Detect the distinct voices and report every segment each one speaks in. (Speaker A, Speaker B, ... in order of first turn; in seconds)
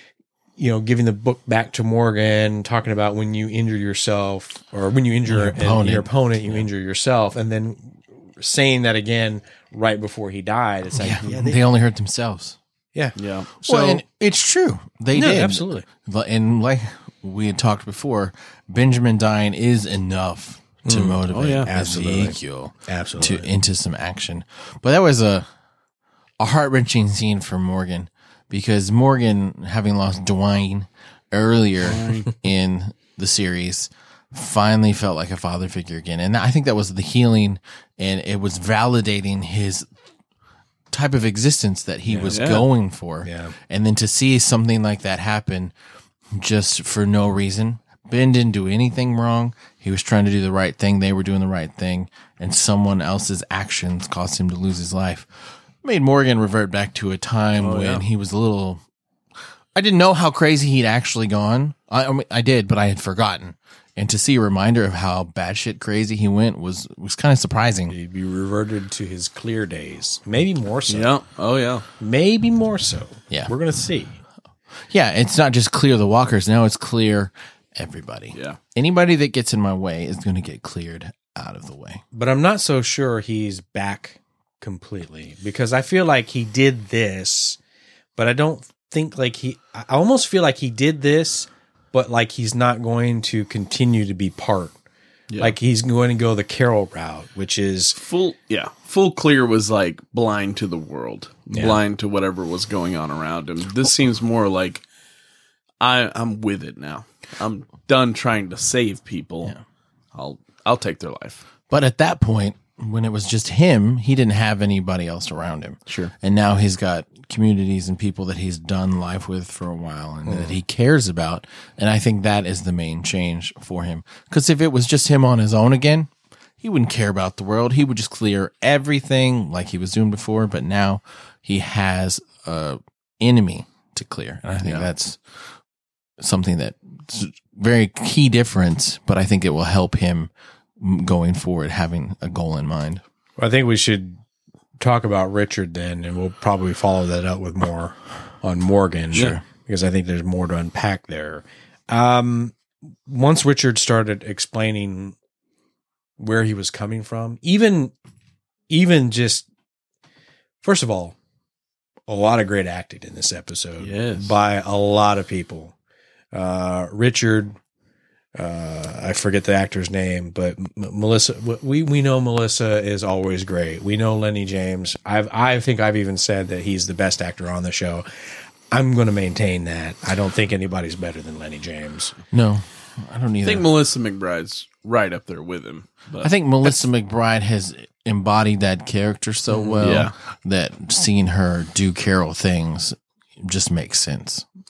Speaker A: 0.6-11.6, 12.9-14.0, 15.1-15.8, 20.9-23.5, 42.1-42.4, 43.2-43.5, 67.9-71.1, 72.0-74.2, 82.1-87.6, 88.2-94.8, 95.4-98.0, 101.5-101.8, 120.3-120.6, 143.4-144.2, 144.8-155.2, 156.2-157.9, 158.7-159.5, 160.6-161.2, 162.1-165.7, 166.3-167.6, 168.4-178.1, 178.7-182.2, 189.5-189.9
Speaker B: 5.3-6.7, 11.0-12.6, 13.6-25.5, 26.4-39.9, 40.9-45.7, 46.3-58.8, 59.8-67.9, 74.9-82.0, 111.7-135.2, 136.2-143.0, 149.1-149.4, 182.3-183.7, 186.2-194.4
Speaker C: 13.2-13.6, 21.3-21.7, 31.8-32.3, 42.3-42.7, 57.6-58.0, 70.9-71.8, 78.3-78.6, 95.3-95.5, 98.0-104.8, 105.8-109.5, 110.1-111.4, 115.9-116.1, 134.6-134.9, 163.8-164.3, 183.4-186.7, 189.8-190.1